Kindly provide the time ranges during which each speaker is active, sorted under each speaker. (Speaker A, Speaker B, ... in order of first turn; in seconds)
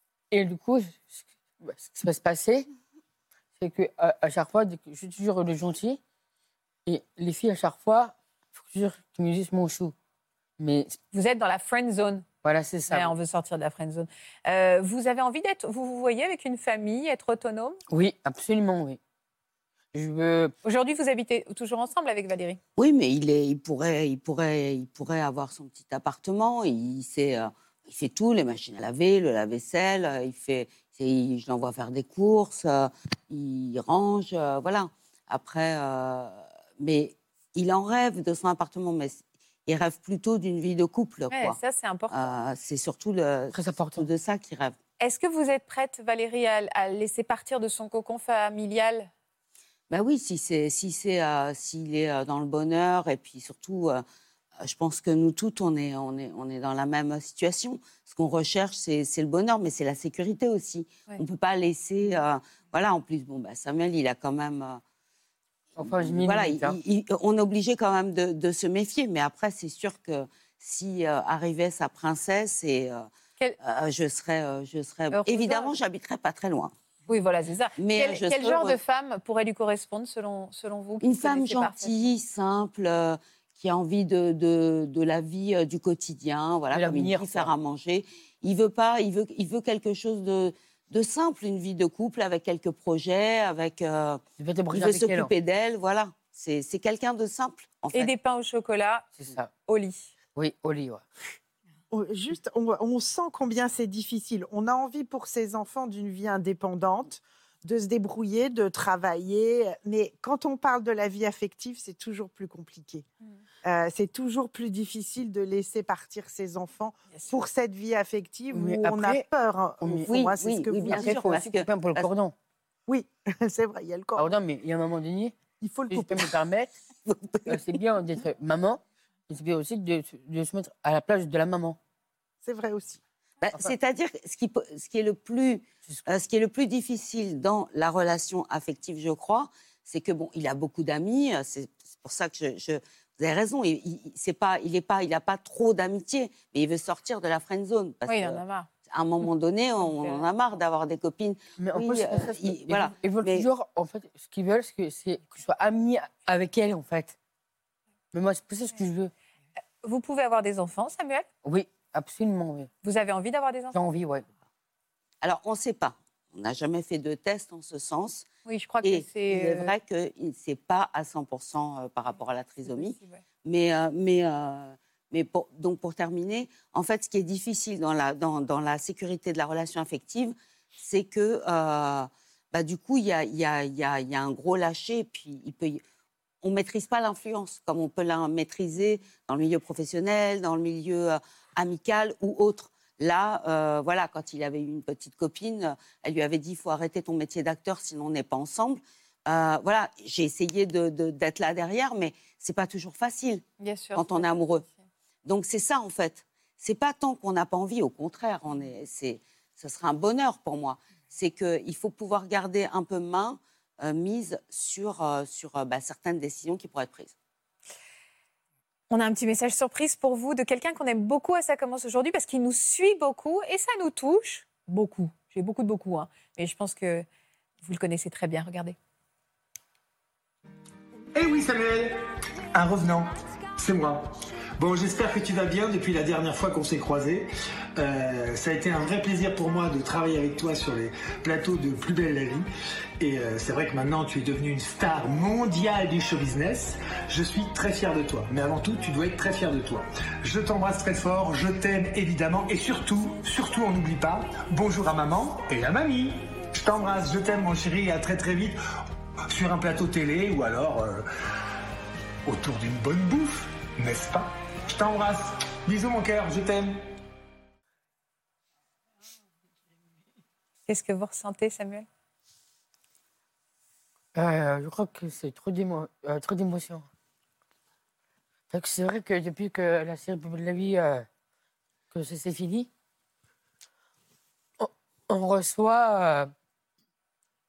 Speaker A: 0.3-2.7, 3.6-6.0, 6.9-9.9, 10.6-11.0, 12.4-13.1, 17.9-19.0, 19.9-20.5, 43.5-44.1, 65.8-66.8, 86.7-87.5, 94.4-95.3, 99.2-99.5, 100.3-101.0, 118.5-119.3, 119.8-120.1, 120.9-122.3, 124.2-125.4, 125.9-126.7, 127.5-131.8, 151.6-157.2, 158.1-159.1, 161.4-162.7, 163.7-164.3, 274.1-276.9, 278.5-281.1, 281.9-282.7, 284.6-286.3
Speaker B: 11.1-12.3, 12.9-17.8, 20.6-22.6, 41.3-42.4, 45.0-49.1, 75.1-75.8, 77.1-82.1, 97.9-99.1, 99.7-100.1, 148.1-148.7, 149.8-150.2, 159.8-161.3, 162.8-163.8, 168.5-169.7, 172.7-173.2, 203.6-204.3, 218.9-227.1, 227.6-228.8, 270.7-271.9
Speaker C: 22.8-41.6, 42.1-44.8, 49.9-54.0, 54.6-64.8, 65.8-73.1, 73.6-76.7, 77.8-78.8, 81.0-94.2, 94.7-98.1, 120.0-122.1, 127.1-127.5, 133.4-153.5, 165.2-168.3, 168.8-185.8, 186.4-204.7, 205.2-217.1
Speaker D: 101.9-113.0, 113.6-121.2, 122.9-124.3, 125.6-126.3, 132.4-133.0
Speaker E: 231.1-232.0, 232.5-242.5, 243.0-258.6, 259.3-261.1, 262.2-266.9